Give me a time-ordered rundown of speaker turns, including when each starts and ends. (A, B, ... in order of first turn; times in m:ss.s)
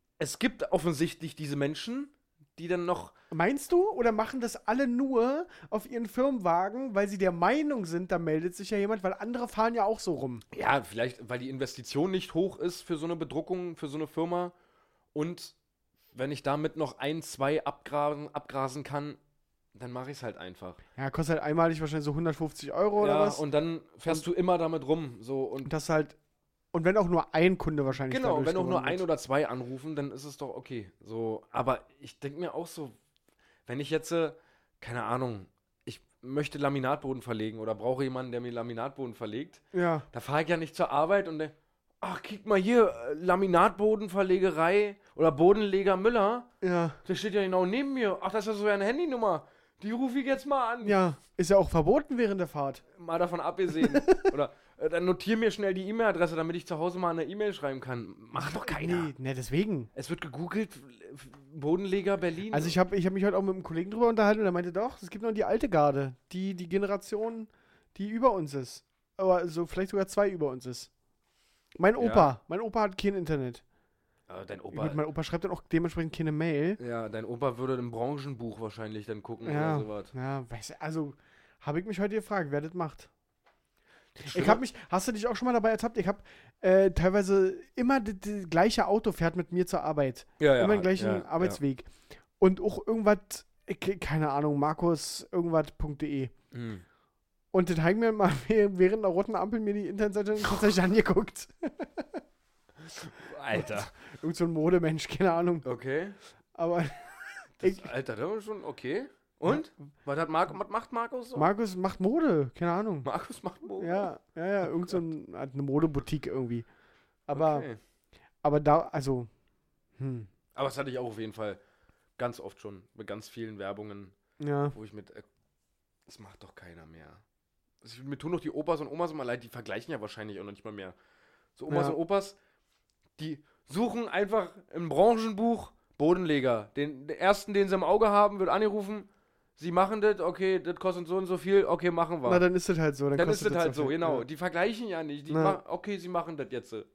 0:00.2-0:03.1 A
0:03.3-0:10.4 B
0:10.5-0:14.5 A
0:15.1-0:15.5 A
0:16.1-0:19.2 A
0:19.7-0:20.8 A
0:21.0-0:23.4 B
0:23.0-0:25.7 A
0:25.6-0:26.2 B
0:26.7-0:29.0 B
0:28.1-0:32.9 A
0:33.6-0:46.5 A
0:39.7-0:40.0 B
0:46.6-0:47.0 B
0:47.0-0:51.0 A
0:50.8-0:52.8 B
0:52.9-0:59.1 A
0:53.8-0:54.3 B
0:58.3-0:59.9 B
0:59.9-1:02.8 A
1:02.5-1:10.9 B
1:11.8-1:13.6 B
1:12.0-1:12.3 A
1:14.3-1:15.0 A
1:14.7-1:16.8 B
1:16.8-1:20.1 A
1:19.4-1:23.1 B
1:24.2-1:24.6 A
1:24.2-1:36.3 B
1:30.4-1:31.6 A
1:36.5-1:36.8 A
1:37.5-1:42.2 B
1:42.8-1:43.9 A
1:43.5-1:45.6 B
1:45.6-1:46.2 A
1:46.5-1:47.9 B
1:47.6-1:51.5 A
1:51.4-1:53.1 B
1:53.0-1:54.1 A
1:53.8-1:56.7 B
1:54.6-1:55.0 A
1:57.3-1:57.7 B
1:57.3-1:57.8 A
1:58.4-1:59.3 B
2:00.0-2:00.3 B
2:00.5-2:01.6 A
2:02.2-2:04.2 A
2:04.4-2:04.7 B
2:04.7-2:05.2 A
2:06.1-2:07.2 A
2:07.8-2:11.0 A
2:11.6-2:12.4 A
2:11.7-2:12.0 B
2:13.2-2:22.4 A
2:22.2-2:24.2 B
2:23.1-2:26.9 A
2:25.3-2:25.6 B